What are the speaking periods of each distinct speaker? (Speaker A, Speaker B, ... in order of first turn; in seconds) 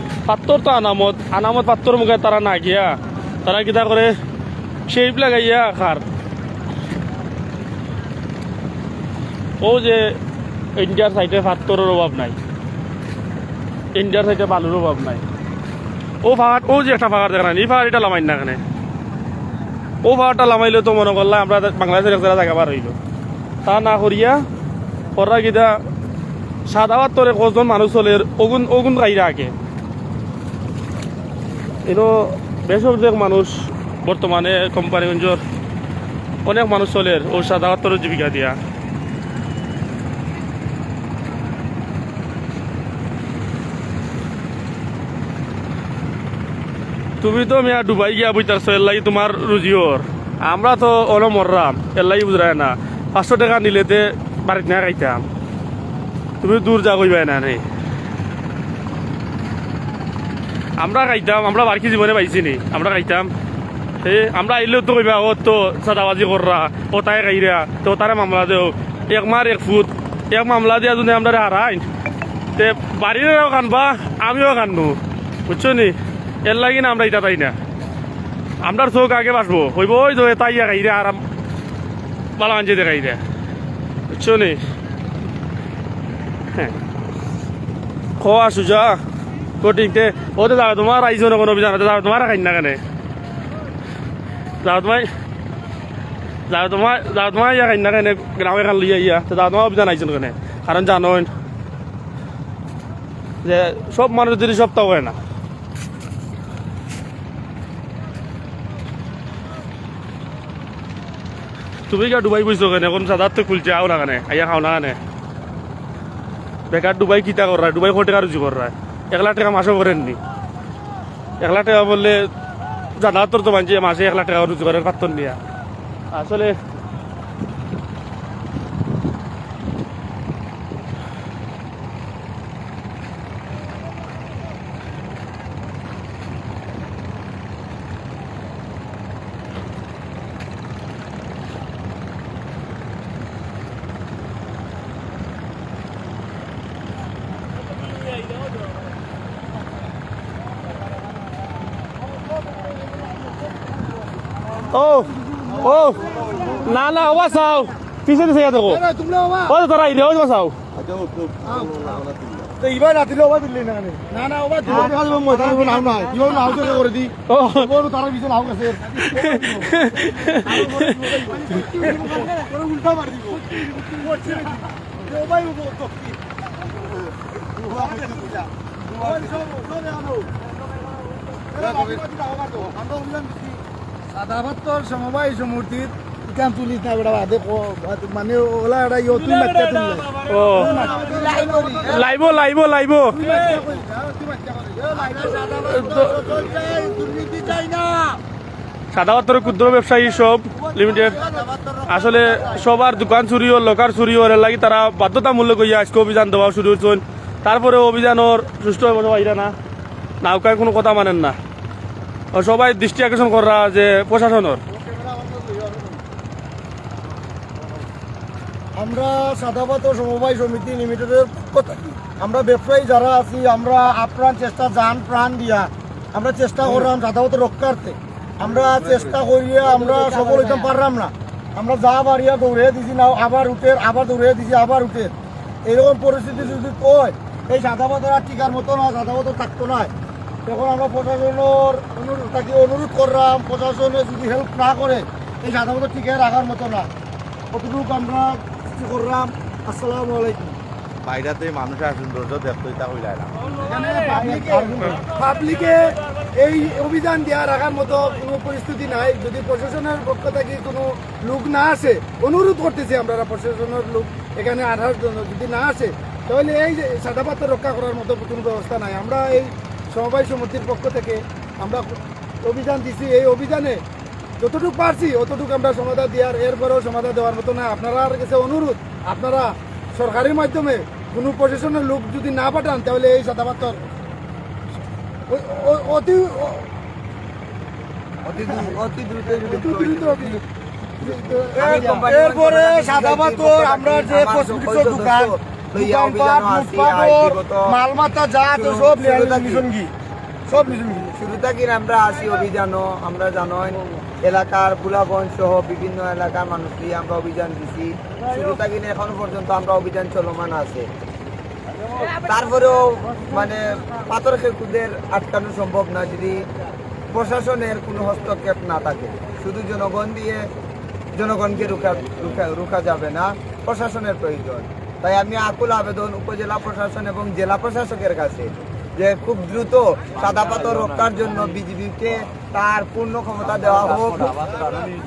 Speaker A: 0.3-4.2, 4.9-6.1, 9.6-10.2, 10.8-12.4, 13.9-15.2, 16.2-18.6, 20.0-23.0, 23.6-24.5, 25.2-25.8, 26.7-29.5, 31.9-35.4, 36.5-38.6, 47.2-55.2, 56.4-57.6, 60.8-63.3, 64.0-71.8, 72.6-77.6, 78.6-81.2, 82.4-83.2, 84.1-84.6, 88.2-89.0, 89.6-92.8, 94.6-95.1, 96.5-101.3, 103.4-105.2, 111.9-115.0, 116.7-120.2, 121.4-122.3, 123.0-125.4, 126.1-126.6, 154.7-158.8, 159.5-160.6, 167.3-167.7, 169.0-171.1, 190.2-190.9, 191.8-193.2, 195.6-196.2, 198.9-201.2, 201.9-209.5, 210.2-211.4, 212.3-214.6
Speaker B: 158.7-159.6, 161.5-162.0, 162.6-176.2, 177.6-180.3, 181.5-183.6, 184.1-192.1, 193.2-198.2, 200.6-202.6, 214.9-215.9, 218.8-235.1, 235.7-239.9, 240.4-246.9, 247.5-250.6, 253.6-273.8, 274.4-283.8, 285.3-286.7, 289.7-290.4, 291.0-299.9, 300.5-301.2
Speaker C: 191.0-191.9, 230.0-230.5, 288.2-290.4, 291.4-297.8, 298.5-299.7, 301.1-310.9, 312.2-316.5, 317.1-320.5, 321.1-334.6
Speaker D: 251.1-253.3